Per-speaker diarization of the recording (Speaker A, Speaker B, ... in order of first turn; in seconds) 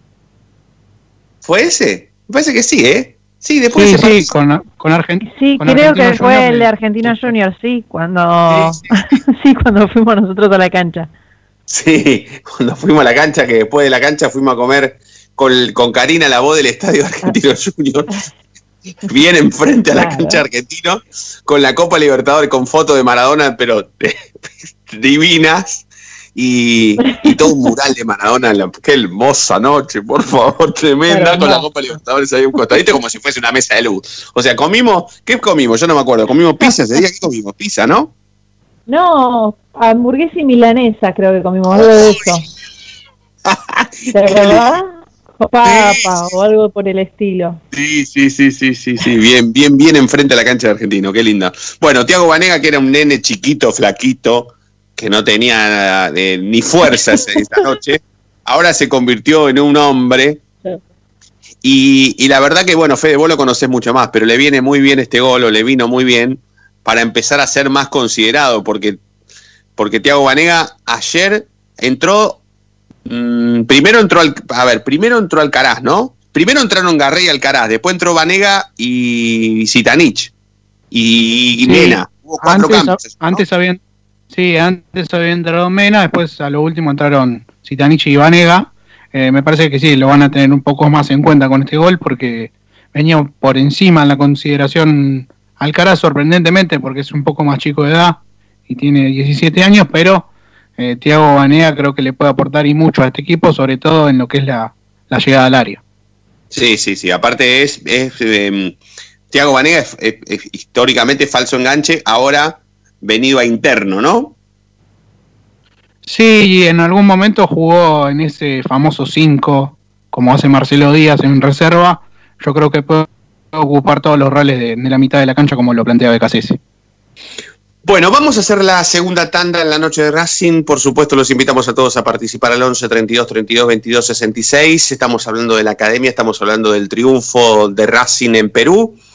Speaker A: 1.4-4.3, 8.5-8.8, 11.7-18.1, 19.0-24.2, 24.9-25.8, 26.3-38.1, 41.7-42.1, 43.5-44.7, 45.6-46.1, 47.7-60.4, 61.6-69.0, 69.8-72.4, 73.0-80.3, 80.9-83.4, 106.5-108.8, 109.3-114.3, 127.8-139.0
Speaker B: 3.7-7.3, 81.6-83.8, 84.3-105.8, 116.0-126.6
Speaker C: 5.2-11.1, 19.9-20.4, 27.0-27.6, 31.1-31.7, 38.9-42.5, 44.1-47.6